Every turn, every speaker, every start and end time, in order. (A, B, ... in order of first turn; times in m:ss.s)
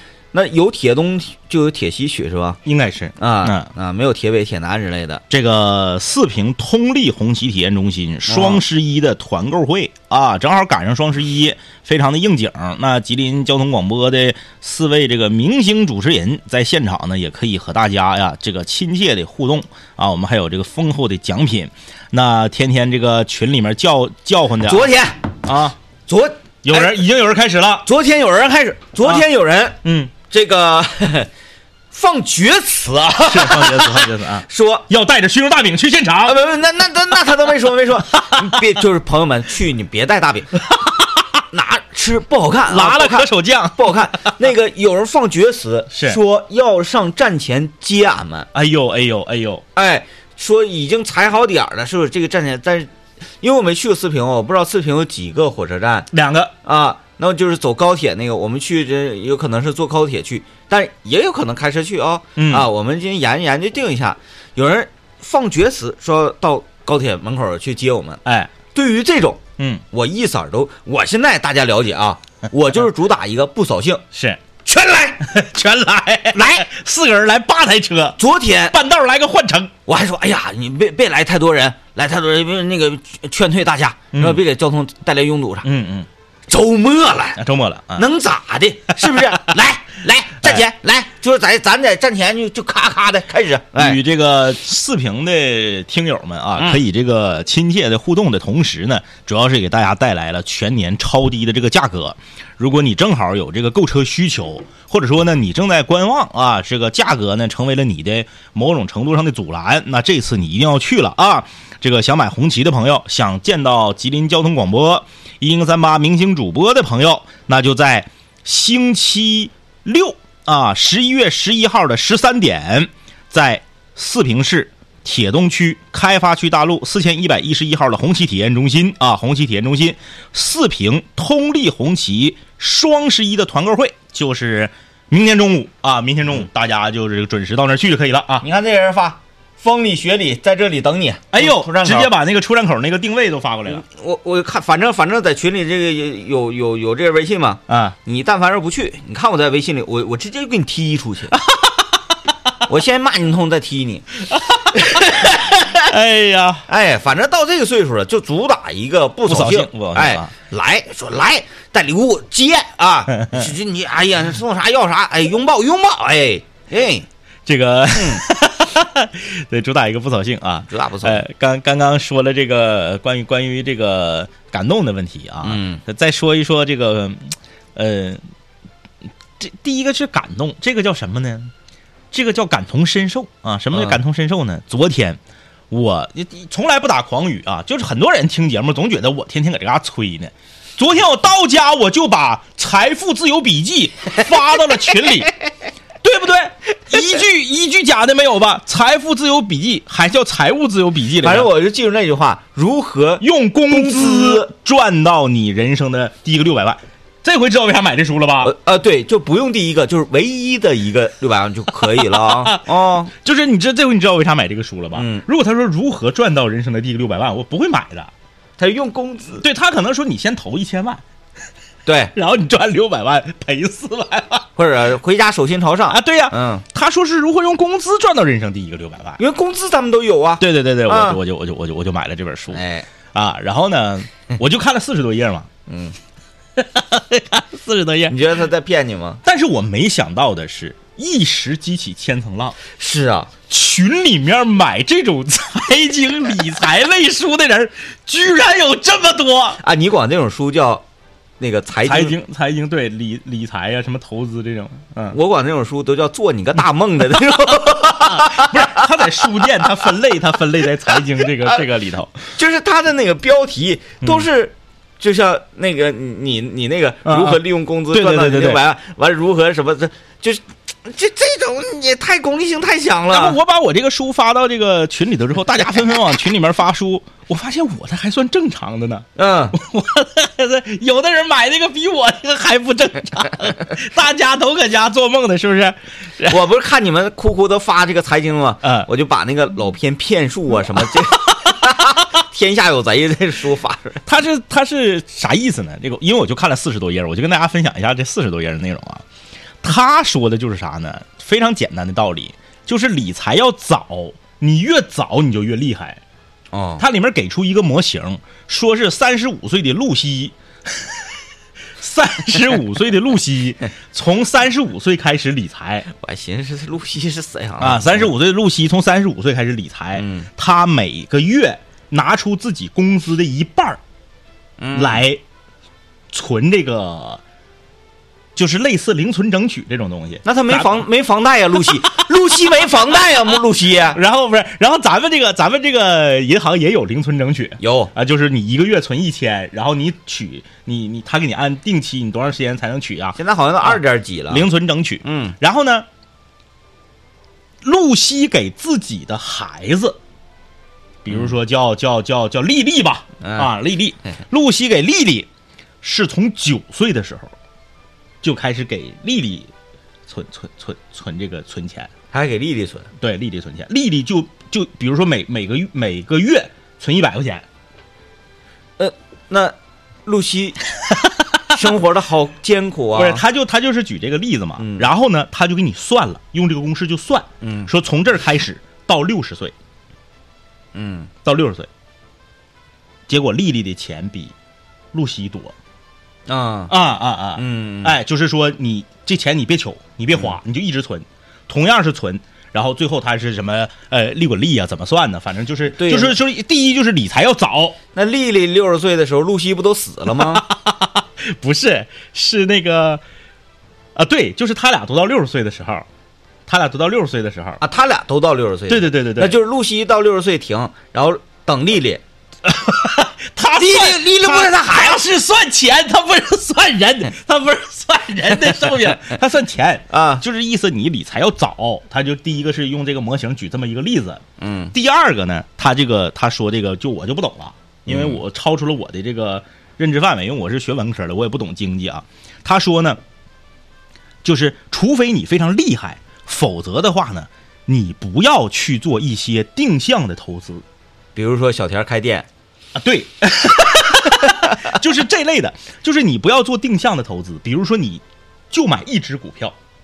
0:00.3-0:02.6 A
0:02.6-0:03.7 B
0:03.2-0:05.2 A
0:05.3-0:24.9 B
0:08.3-0:08.6 A
0:24.7-0:25.3 A
0:25.4-0:25.8 B
0:26.1-0:27.0 A
0:26.6-0:27.8 B
0:27.8-0:31.3 A
0:29.8-0:30.1 B
0:31.9-0:34.8 A
0:33.2-0:36.3 B
0:36.2-0:40.5 A
0:38.2-0:38.6 B
0:40.7-0:41.2 B
0:41.5-0:48.5 A
0:42.7-0:44.3 B
0:45.9-0:46.2 B
0:48.5-0:49.6 B
0:49.8-0:52.9 A
0:53.4-0:56.1 A
0:56.1-0:56.5 B
0:56.6-1:08.2 A
1:02.4-1:02.7 B
1:08.2-1:08.5 B
1:08.7-1:14.0 A
1:09.6-1:09.8 B
1:14.1-1:14.4 B
1:14.6-1:15.2 A
1:15.2-1:18.2 B
1:16.3-1:16.7 A
1:18.2-1:18.8 A
1:18.7-1:19.7 B
1:19.8-1:25.7 A
1:24.1-1:24.4 B
1:25.6-1:26.1 B
1:26.5-1:27.4 A
1:27.4-1:28.0 B
1:28.0-1:34.0 A
1:29.1-1:29.4 B
1:33.8-2:18.4 B
2:18.4-2:22.1 A
2:21.3-2:23.8 B
2:23.7-2:31.4 A
2:27.7-2:28.0 B
2:31.4-2:31.7 B
2:32.6-2:34.1 A
2:34.3-2:36.6 B
2:34.7-2:35.8 A
2:36.7-2:47.0 A
2:39.2-2:40.3 B
2:43.1-2:43.5 B
2:47.4-2:58.2 B
2:47.9-2:48.2 A
2:50.7-2:51.2 A
2:55.4-2:55.8 A
2:59.4-3:01.5 B
3:02.1-3:05.2 B
3:05.7-3:15.3 B
3:16.0-3:21.5 B
3:21.2-3:24.5 A
3:23.2-3:28.5 B
3:28.4-3:33.1 A
3:31.8-3:38.1 B
3:34.9-3:35.2 A
3:38.6-3:39.4 A
3:39.4-3:41.0 B
3:41.8-3:42.1 A
3:42.1-3:44.4 B
3:44.6-3:46.6 A
3:45.9-3:49.2 B
3:49.2-3:51.2 A
3:50.4-3:52.6 B
3:52.5-3:52.9 A
3:53.1-3:55.5 B
3:55.7-3:56.0 A
3:56.6-3:58.2 B
3:58.1-3:59.2 A
3:59.2-4:02.6 B
4:02.8-4:03.3 A
4:03.5-4:09.6 B
4:09.6-4:10.8 A
4:11.4-4:12.1 A
4:11.8-4:15.2 B
4:15.1-4:19.6 A
4:18.0-4:22.2 B
4:21.2-4:21.6 A
4:22.3-4:33.4 A
4:27.0-4:28.6 B
4:33.1-4:46.4 B
4:39.2-4:39.6 A
4:46.3-4:54.0 A
4:48.6-4:48.9 B
4:54.0-4:59.0 B
4:59.6-5:06.0 B
5:06.5-5:06.8 A
5:06.8-5:11.1 B
5:11.8-5:15.8 B
5:15.9-5:18.1 A
5:17.6-5:23.8 B
5:20.0-5:20.3 A
5:24.6-5:25.0 A
5:24.7-5:25.2 B
5:26.1-5:27.2 B
5:28.3-5:30.8 B
5:30.2-5:34.0 A
5:31.5-5:32.1 B
5:33.9-5:45.8 B
5:37.6-5:37.9 A
5:43.2-5:44.5 A
5:45.0-5:45.4 A
5:47.6-5:50.0 B
5:51.0-5:55.3 B
5:53.2-5:53.5 A
5:55.8-5:57.3 B
5:58.2-5:59.5 B
6:00.1-6:01.9 B
6:02.1-6:02.9 A
6:03.0-6:07.4 B
6:08.8-6:10.6 A
6:11.4-6:13.2 A
6:12.9-6:19.5 B
6:14.6-6:14.9 A
6:17.4-6:17.7 A
6:20.7-6:21.1 A
6:21.2-6:21.7 B
6:23.1-6:24.3 B
6:24.9-6:25.5 B
6:26.3-6:26.7 A
6:26.7-6:37.8 B
6:27.4-6:28.0 A
6:35.7-6:36.1 A
6:37.9-6:40.4 A
6:40.1-6:43.0 B
6:44.0-6:45.8 B
6:46.5-6:47.6 B
6:47.6-6:52.0 A
6:48.7-6:49.4 B
6:52.4-7:04.2 B
6:53.5-6:55.0 A
6:59.9-7:00.2 A
7:04.4-7:04.7 A
7:04.7-7:13.0 B
7:07.9-7:08.2 A
7:14.2-7:20.6 B
7:21.2-7:22.3 A
7:22.8-7:29.5 B